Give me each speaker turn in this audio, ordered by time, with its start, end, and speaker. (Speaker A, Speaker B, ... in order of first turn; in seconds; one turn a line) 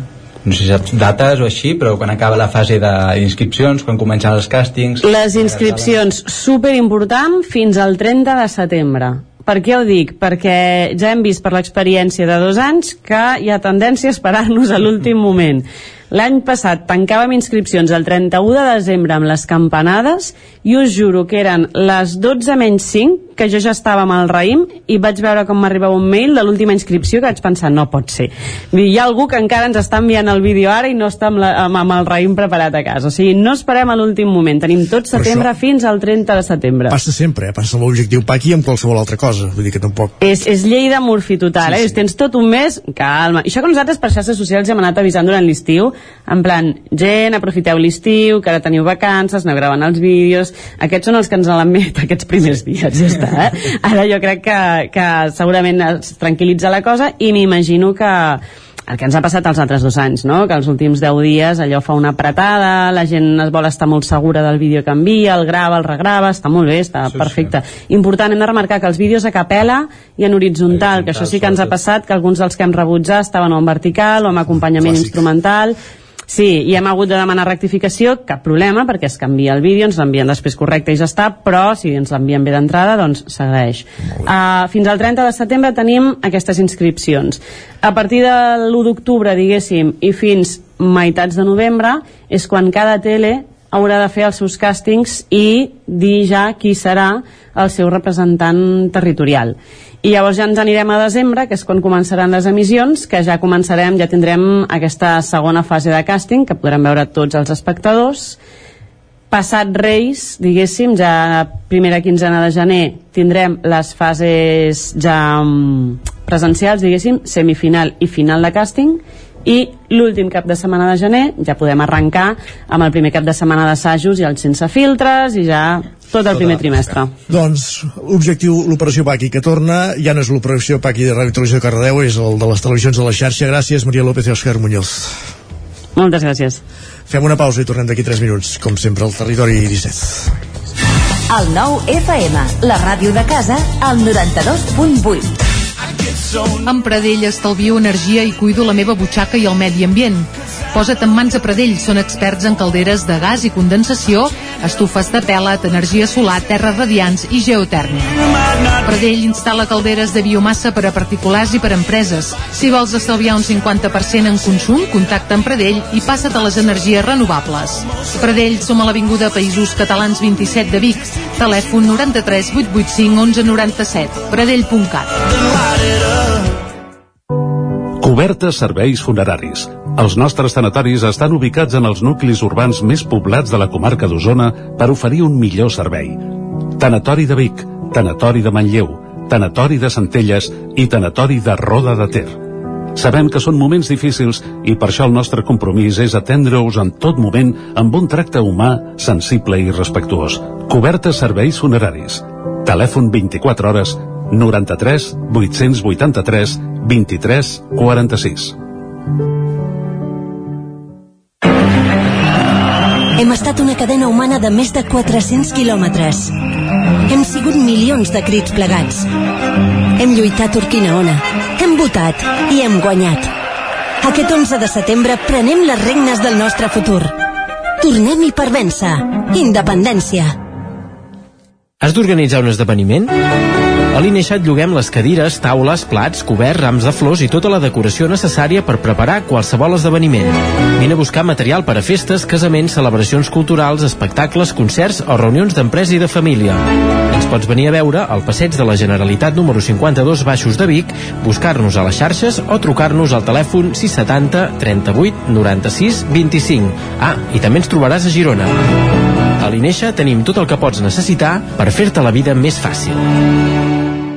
Speaker A: 0.4-6.0
Speaker B: 5.0-37.0
Speaker C: 35.1-35.5
Speaker C: 36.9-40.2
Speaker B: 40.2-75.8
Speaker C: 41.6-42.0
Speaker A: 67.1-67.3
Speaker A: 70.7-71.7
Speaker B: 76.3-108.4
Speaker B: 109.3-127.1
Speaker C: 126.3-126.6
Speaker C: 127.3-135.2
Speaker B: 135.9-136.6
Speaker C: 137.1-140.3
Speaker D: 141.3-145.4
Speaker E: 146.6-158.2
Speaker E: 158.8-175.2
Speaker F: 178.0-192.4
Speaker F: 192.9-208.6
Speaker G: 213.2-216.3
Speaker G: 217.1-219.1
Speaker G: 220.0-223.3
Speaker G: 224.0-227.2
Speaker G: 227.8-230.3
Speaker H: 231.8-233.2
Speaker H: 233.9-258.6
Speaker H: 259.4-263.0